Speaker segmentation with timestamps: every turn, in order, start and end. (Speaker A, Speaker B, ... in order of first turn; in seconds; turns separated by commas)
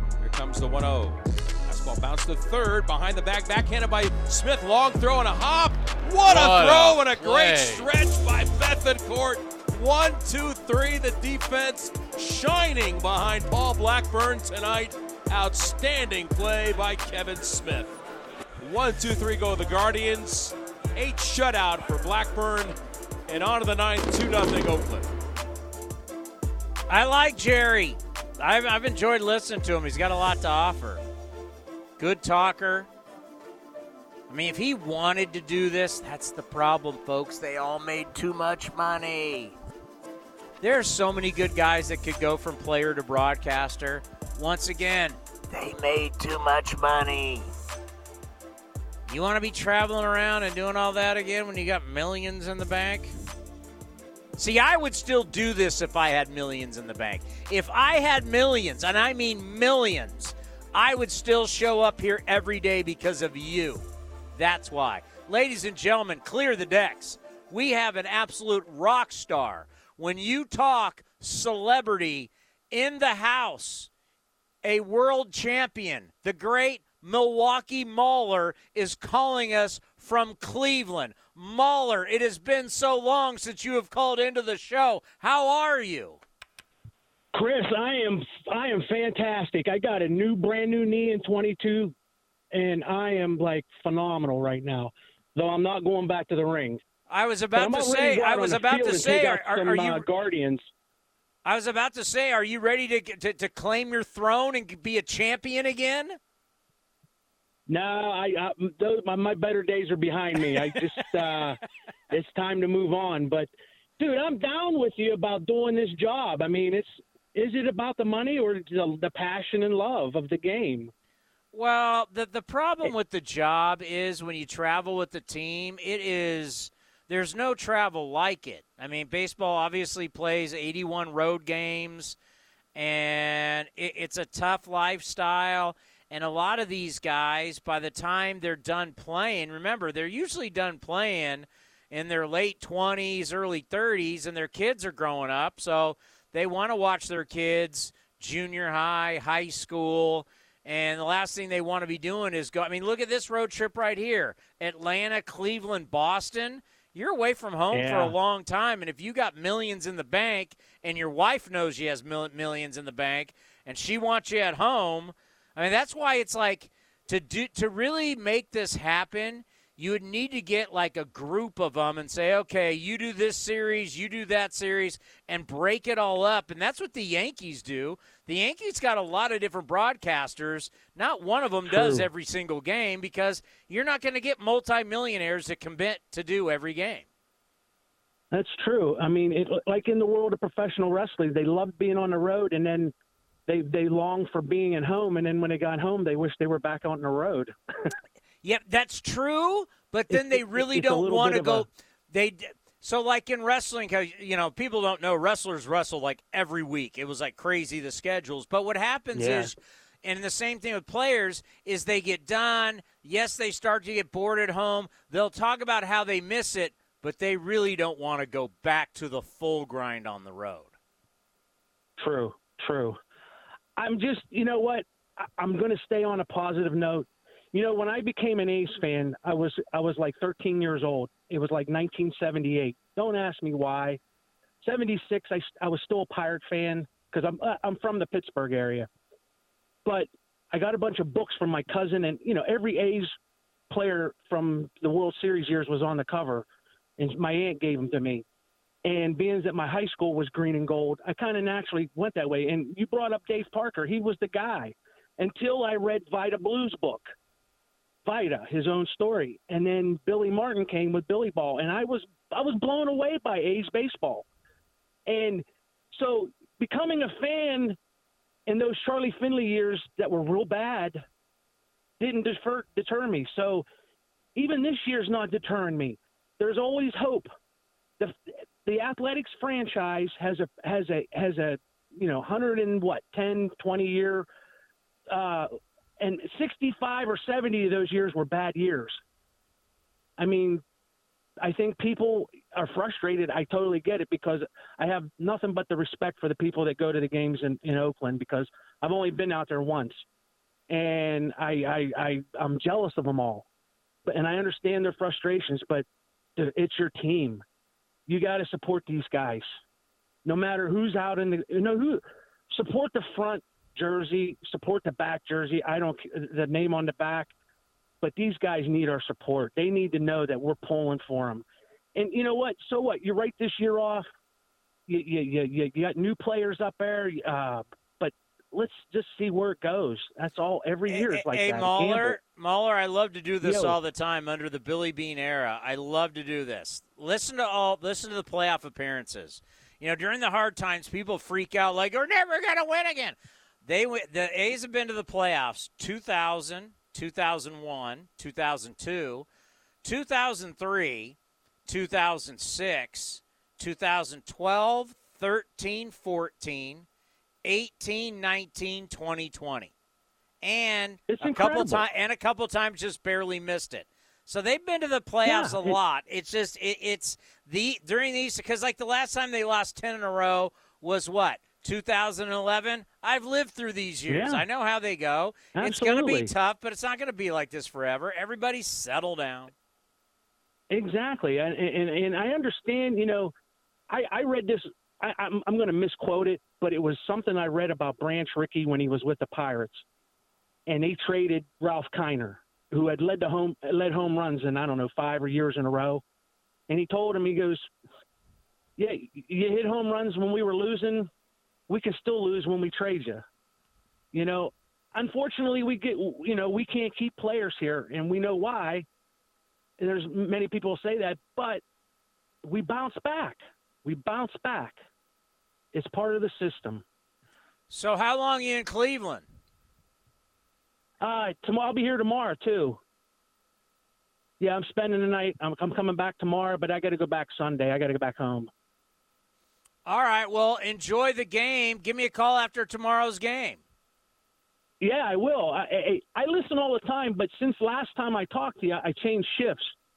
Speaker A: 0.2-18.0, Speaker B: 6.3-7.5, Speaker A: 18.6-22.8, Speaker A: 23.3-25.1, Speaker B: 26.9-31.0, Speaker B: 32.0-32.9, Speaker B: 34.3-39.5, Speaker B: 40.6-47.4, Speaker B: 49.1-53.1, Speaker B: 54.4-63.8, Speaker B: 64.3-73.9, Speaker B: 74.6-86.2, Speaker C: 87.3-91.9, Speaker C: 92.5-96.8, Speaker B: 97.1-100.0, Speaker C: 97.5-100.6, Speaker B: 101.4-106.2, Speaker C: 107.7-111.6, Speaker C: 112.1-120.9, Speaker B: 121.5-132.2, Speaker B: 132.7-187.0, Speaker C: 157.7-158.1, Speaker C: 181.7-182.1, Speaker C: 188.3-192.9, Speaker C: 193.5-197.5, Speaker B: 198.4-220.7, Speaker C: 200.1-201.7, Speaker C: 209.1-209.5, Speaker C: 222.0-223.0, Speaker C: 223.8-234.0, Speaker C: 234.6-238.9, Speaker C: 239.8-243.1, Speaker C: 243.7-246.4, Speaker C: 247.0-248.2, Speaker C: 248.8-257.1, Speaker C: 258.1-264.3, Speaker C: 265.1-267.8, Speaker C: 268.5-271.0, Speaker C: 272.0-273.6, Speaker C: 274.4-277.3, Speaker C: 278.0-284.2, Speaker C: 285.1-289.0, Speaker C: 290.2-290.6, Speaker C: 291.4-300.0, Speaker C: 300.7-303.4, Speaker C: 304.1-305.8, Speaker C: 306.4-307.4, Speaker C: 308.1-309.4, Speaker C: 310.2-317.3, Speaker C: 318.0-321.4, Speaker C: 321.9-324.1, Speaker C: 324.9-332.2, Speaker B: 330.9-349.2, Speaker C: 333.4-333.8, Speaker B: 349.8-351.1, Speaker B: 351.7-356.9, Speaker B: 357.4-359.7, Speaker B: 360.4-379.5, Speaker C: 361.1-361.8, Speaker C: 365.2-365.8, Speaker C: 374.1-374.4, Speaker C: 375.5-376.3, Speaker C: 380.7-383.3, Speaker C: 383.9-389.8, Speaker C: 390.7-396.0, Speaker C: 396.7-397.6, Speaker C: 398.8-401.1, Speaker C: 401.7-403.2, Speaker C: 404.1-408.8, Speaker C: 409.8-411.6, Speaker C: 412.4-414.8, Speaker C: 415.7-416.8, Speaker B: 417.7-419.2, Speaker C: 421.0-422.8, Speaker C: 424.4-428.5, Speaker B: 429.9-433.6, Speaker C: 434.8-439.7